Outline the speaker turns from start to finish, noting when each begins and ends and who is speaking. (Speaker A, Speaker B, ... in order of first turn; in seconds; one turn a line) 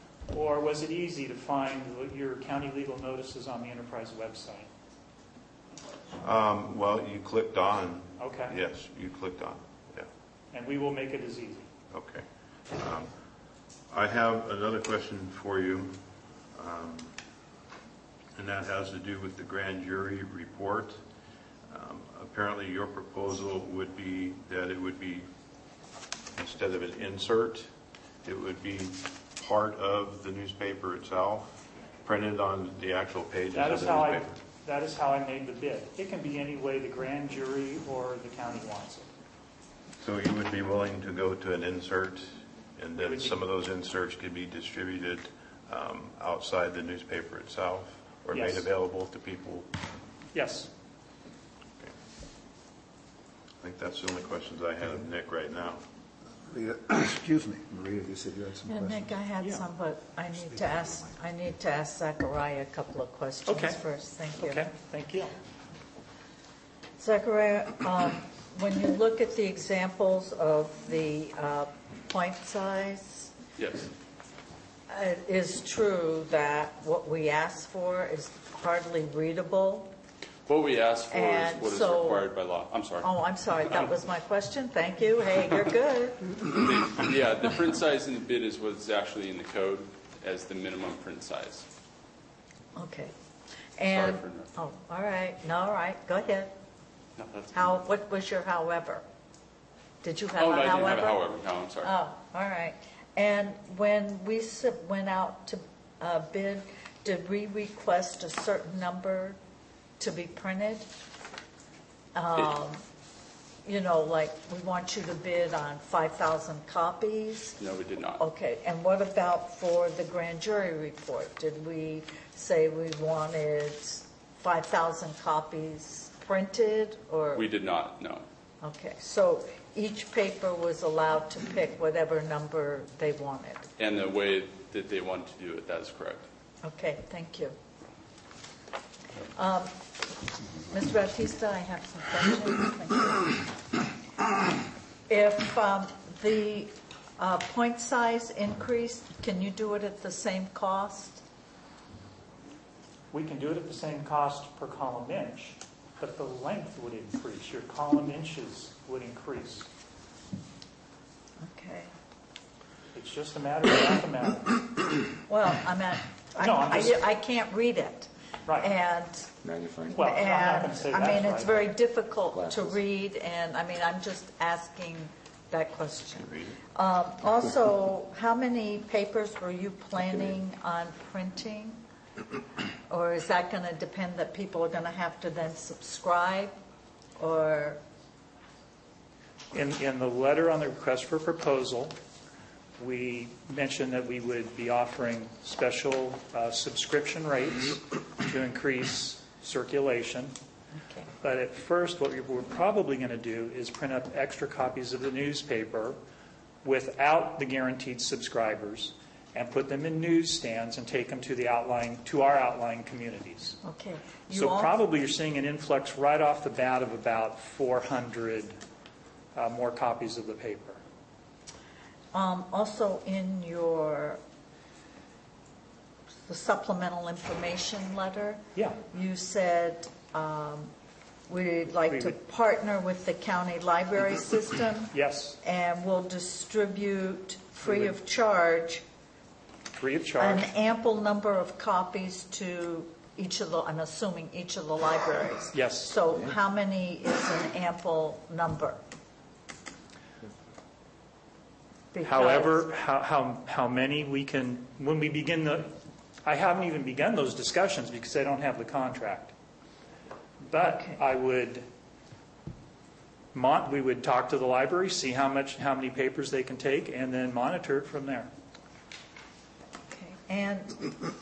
Speaker A: 0.3-4.7
Speaker B: 6.2-10.1
Speaker A: 8.2-8.6
Speaker A: 10.5-11.7
Speaker B: 11.9-13.1
Speaker B: 13.9-15.9
Speaker B: 16.5-17.1
Speaker B: 18.3-21.0
Speaker B: 21.7-25.3
Speaker B: 26.3-27.7
Speaker B: 28.2-34.3
Speaker A: 33.5-39.1
Speaker B: 40.0-49.7
Speaker A: 43.0-43.4
Speaker A: 48.3-48.7
Speaker A: 50.3-50.7
Speaker B: 53.6-55.8
Speaker C: 56.5-59.1
Speaker D: 58.6-64.7
Speaker A: 63.5-63.8
Speaker A: 64.3-65.3
Speaker D: 67.0-73.3
Speaker E: 73.6-73.9
Speaker D: 74.9-79.9
Speaker E: 80.5-83.1
Speaker D: 81.1-82.3
Speaker D: 83.0-86.3
Speaker E: 86.4-91.7
Speaker D: 92.7-93.1
Speaker D: 93.8-96.5
Speaker E: 93.9-94.5
Speaker E: 97.2-97.7
Speaker D: 97.5-99.0
Speaker D: 100.0-101.2
Speaker E: 100.3-101.9
Speaker D: 101.8-109.4
Speaker D: 110.0-110.9
Speaker D: 112.1-112.8
Speaker D: 113.6-117.6
Speaker E: 117.6-118.2
Speaker D: 118.2-127.5
Speaker E: 127.3-128.2
Speaker D: 128.6-133.7
Speaker E: 133.8-136.2
Speaker D: 136.6-137.6
Speaker D: 139.3-139.7
Speaker D: 140.7-143.5
Speaker D: 145.1-151.2
Speaker A: 153.1-159.7
Speaker D: 161.4-161.9
Speaker A: 162.9-164.6
Speaker D: 165.3-169.3
Speaker A: 166.3-167.0
Speaker F: 169.4-170.2
Speaker D: 169.9-181.8
Speaker A: 169.9-171.7
Speaker F: 172.3-172.8
Speaker B: 176.2-176.6
Speaker F: 179.9-180.4
Speaker D: 182.9-186.5
Speaker D: 187.2-187.8
Speaker A: 189.5-191.9
Speaker A: 192.8-200.3
Speaker A: 201.2-206.0
Speaker A: 206.6-213.6
Speaker D: 213.6-214.7
Speaker A: 214.3-218.6
Speaker A: 219.3-220.8
Speaker D: 222.1-224.2
Speaker D: 226.3-230.7
Speaker A: 228.5-228.8
Speaker D: 231.3-238.8
Speaker A: 231.8-232.2
Speaker A: 234.9-235.4
Speaker A: 237.6-237.9
Speaker A: 239.8-240.5
Speaker D: 240.2-248.8
Speaker A: 245.5-245.9
Speaker F: 246.1-246.4
Speaker D: 251.9-252.6
Speaker A: 252.0-259.3
Speaker A: 260.5-261.6
Speaker D: 260.6-261.0
Speaker A: 263.3-268.3
Speaker D: 269.9-270.9